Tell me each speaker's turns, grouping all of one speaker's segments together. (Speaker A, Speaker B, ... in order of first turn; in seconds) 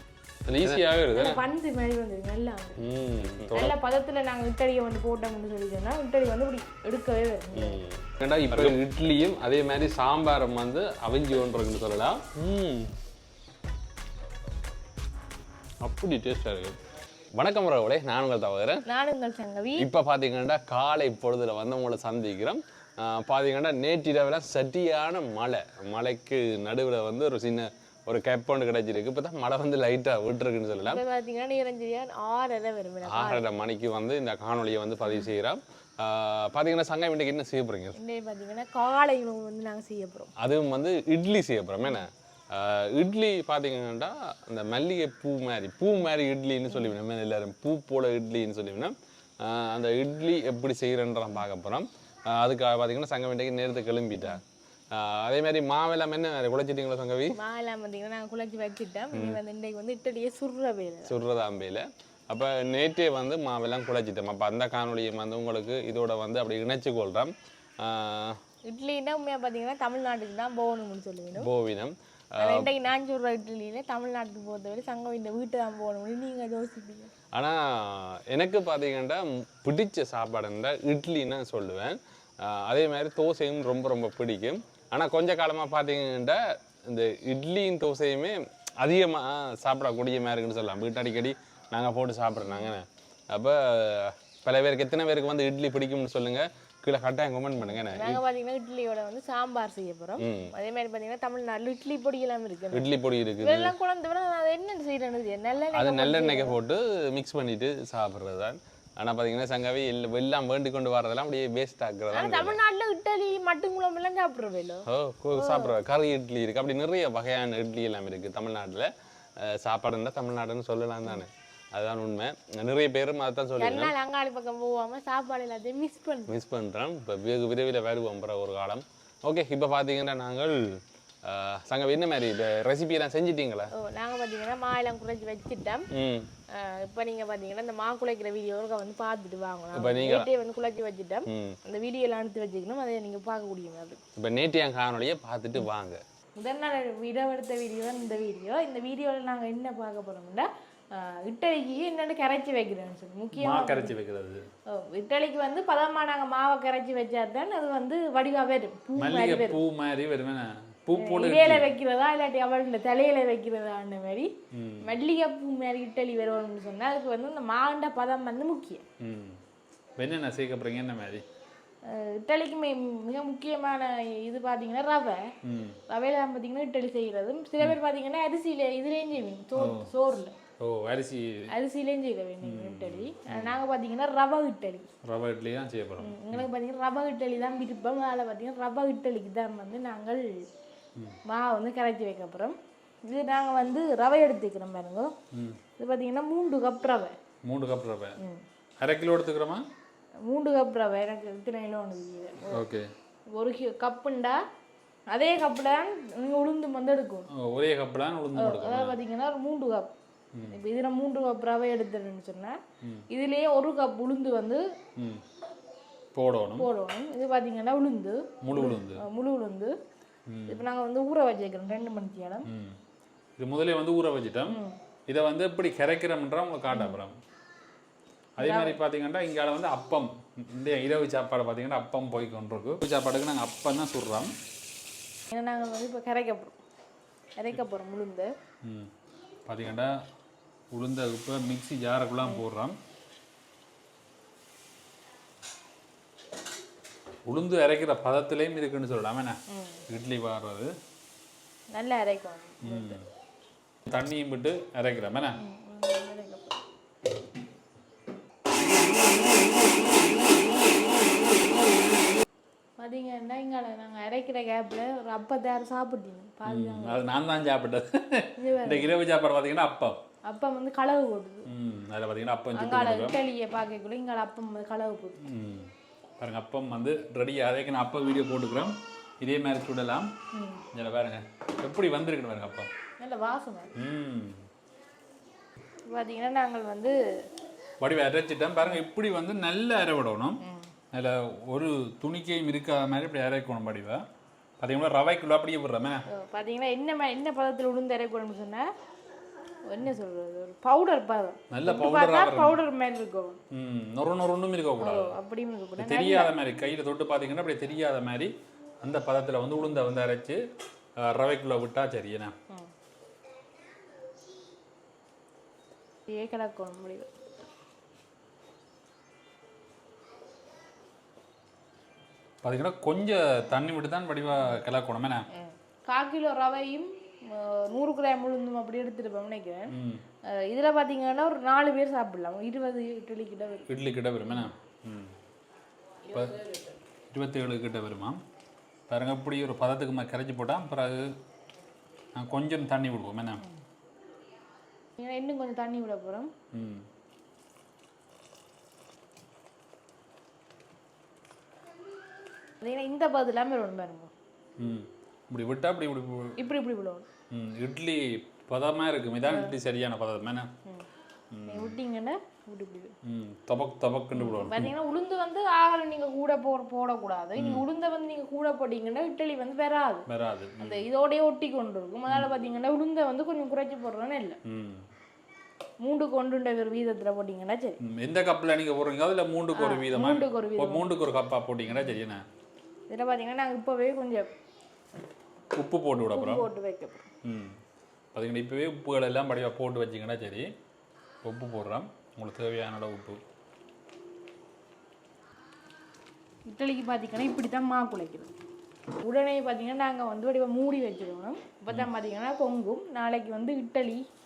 Speaker A: 0.5-1.4, 2.8-3.8, 7.5-12.9, 15.8-16.8, 17.4-18.8, 19.8-31.0, 33.1-38.0, 40.4-57.4, 59.1-59.4, 61.1-68.4, 71.3-72.7, 77.3-98.2, 100.2-100.5, 102.7-103.7, 105.7-112.6, 114.9-123.9, 126.3-133.7, 135.9-136.3, 139.7-140.3, 141.3-141.6, 144.2-146.0
Speaker B: 1.1-2.8, 3.5-7.8, 18.9-19.9, 30.8-33.4, 38.0-40.3, 57.3-61.1, 68.7-71.5, 72.4-77.1, 97.6-102.9, 103.4-106.6, 112.1-115.8, 123.6-126.3, 133.7-135.9, 136.5-144.0, 146.4-153.9, 154.7-159.6, 160.9-164.3, 164.8-168.8, 171.8-175.3, 175.9-180.3, 181.5-184.9, 186.0-190.4, 191.3-195.1, 195.8-197.2, 200.3-202.7, 203.3-204.4, 205.1-207.3, 208.4-209.9, 210.5-212.6, 213.1-214.7, 216.6-219.7, 220.5-222.5, 224.5-224.8, 226.7-227.0, 228.4-228.8, 235.3-236.6, 237.4-238.3, 249.5-249.8, 251.7-253.0, 255.4-256.6, 262.8-267.0, 268.4-268.9, 270.2-271.5, 272.6-275.3, 280.3-280.6, 283.0-283.7, 285.9-287.0, 290.4-290.7, 296.1-298.7, 299.7-303.4, 304.8-306.3, 316.1-317.1, 325.3-329.7, 330.2-333.7, 336.1-336.8, 345.0-346.3, 352.6-354.1, 356.4-357.1, 361.5-362.9, 364.1-370.1, 370.6-374.4, 375.8-377.8, 379.5-380.9, 382.9-384.3, 386.1-387.1, 396.5-398.3, 399.0-404.1
Speaker C: 3.2-3.6, 8.5-8.8, 153.4-154.4, 159.0-161.7, 164.5-164.9, 169.0-169.4, 170.0-171.2, 175.4-175.8, 179.6-179.9, 180.6-181.5, 182.4-183.5, 185.0-186.5, 195.3-195.6, 197.5-198.2, 198.8-199.6, 202.5-202.9, 207.3-209.0, 215.0-215.2, 216.1-216.7, 218.4-219.1, 220.3-220.6, 222.5-222.8, 223.4-227.2, 228.4-234.3, 238.6-238.9, 239.5-239.9, 240.7-242.8, 247.3-250.7, 252.6-253.1, 253.9-255.4, 266.5-270.0, 271.5-273.2, 275.2-280.1, 280.7-282.7, 283.8-284.4, 287.8-290.4, 290.9-294.1, 294.6-296.0, 301.5-302.6, 303.5-305.2, 305.8-310.4, 311.0-312.3, 322.4-325.3, 329.7-330.0, 333.7-335.2, 337.1-338.2, 338.9-341.1, 342.1-343.4, 346.5-346.9, 354.6-356.4, 357.3-360.5, 361.3-361.8, 363.0-364.7, 367.4-367.6, 370.1-370.9, 374.4-374.8, 377.8-382.2, 385.5-386.5, 387.2-387.6, 388.1-390.5, 391.2-393.2